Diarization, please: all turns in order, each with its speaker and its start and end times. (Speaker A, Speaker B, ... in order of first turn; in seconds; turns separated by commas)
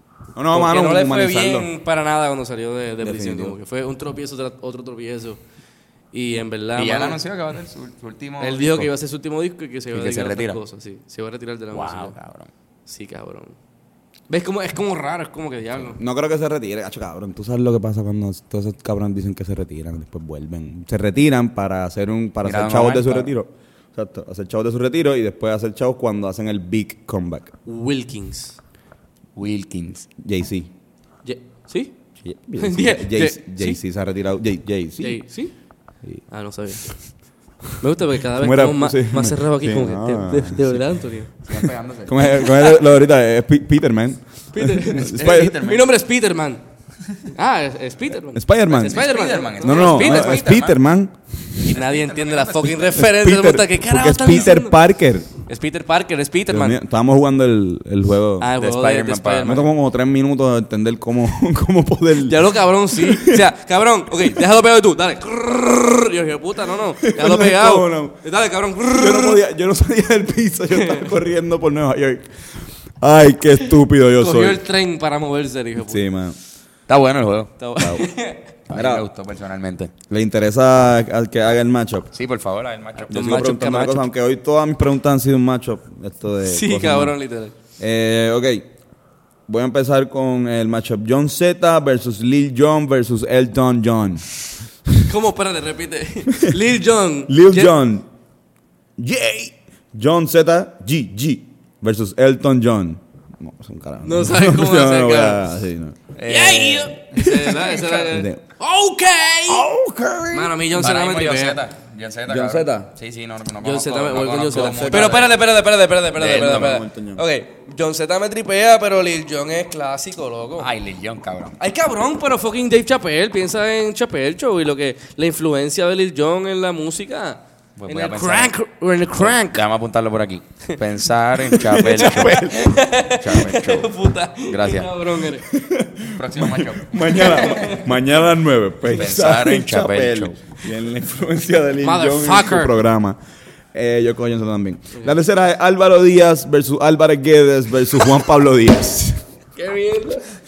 Speaker A: 0.3-1.7, Speaker B: 0.5-5.4, Speaker A: 3.0-3.5, Speaker B: 6.1-7.2, Speaker C: 6.8-8.9, Speaker B: 8.4-12.1, Speaker C: 9.9-10.6, Speaker C: 11.7-12.5, Speaker B: 12.8-13.6, Speaker B: 14.3-16.0, Speaker A: 15.9-27.5, Speaker C: 22.4-23.3, Speaker B: 27.6-28.6, Speaker C: 29.4-30.1, Speaker A: 30.2-30.7, Speaker B: 31.2-31.9, Speaker A: 32.2-35.2, Speaker B: 32.6-33.8, Speaker B: 35.0-35.5, Speaker B: 36.3-37.0, Speaker B: 37.8-41.3, Speaker A: 38.3-40.8, Speaker C: 41.5-42.5, Speaker A: 42.0-45.6, Speaker B: 44.5-46.6, Speaker C: 44.9-45.9, Speaker B: 47.3-50.6, Speaker A: 48.3-49.1, Speaker C: 48.8-50.8, Speaker A: 49.6-51.7, Speaker C: 51.6-52.9, Speaker B: 51.6-54.8, Speaker A: 52.9-55.3, Speaker B: 55.4-56.8, Speaker A: 56.5-58.5, Speaker B: 58.4-59.7, Speaker C: 58.6-59.6, Speaker A: 59.4-63.5, Speaker B: 62.3-69.4, Speaker A: 67.0-68.2, Speaker A: 68.8-72.3, Speaker B: 70.7-71.0, Speaker A: 73.0-74.6, Speaker B: 74.2-76.0, Speaker A: 75.8-76.4, Speaker C: 76.9-77.5, Speaker B: 77.6-78.5, Speaker A: 77.8-78.0, Speaker C: 78.7-79.9, Speaker A: 78.7-79.0, Speaker A: 80.1-82.1, Speaker C: 82.1-83.2, Speaker A: 83.1-87.1, Speaker B: 83.1-84.0, Speaker B: 86.5-87.5, Speaker A: 87.8-88.7, Speaker A: 89.5-94.2, Speaker B: 95.1-97.7, Speaker A: 97.3-98.0, Speaker A: 99.0-106.0, Speaker B: 104.0-105.4, Speaker C: 106.1-107.0, Speaker B: 106.2-109.7, Speaker A: 107.2-108.4, Speaker A: 109.5-110.6, Speaker B: 110.3-111.6, Speaker C: 110.8-115.4, Speaker A: 112.3-112.9, Speaker B: 113.6-120.7, Speaker A: 114.5-115.3, Speaker A: 116.1-117.2, Speaker C: 116.2-116.7, Speaker C: 120.6-121.5, Speaker B: 121.6-129.6, Speaker C: 127.8-128.5, Speaker C: 129.2-133.9, Speaker B: 131.5-135.5, Speaker A: 131.8-132.7, Speaker C: 134.5-134.9, Speaker A: 135.5-143.2, Speaker C: 136.1-137.6, Speaker B: 137.1-137.8, Speaker C: 138.8-140.3, Speaker B: 141.8-142.7, Speaker A: 143.7-149.2, Speaker B: 149.6-150.2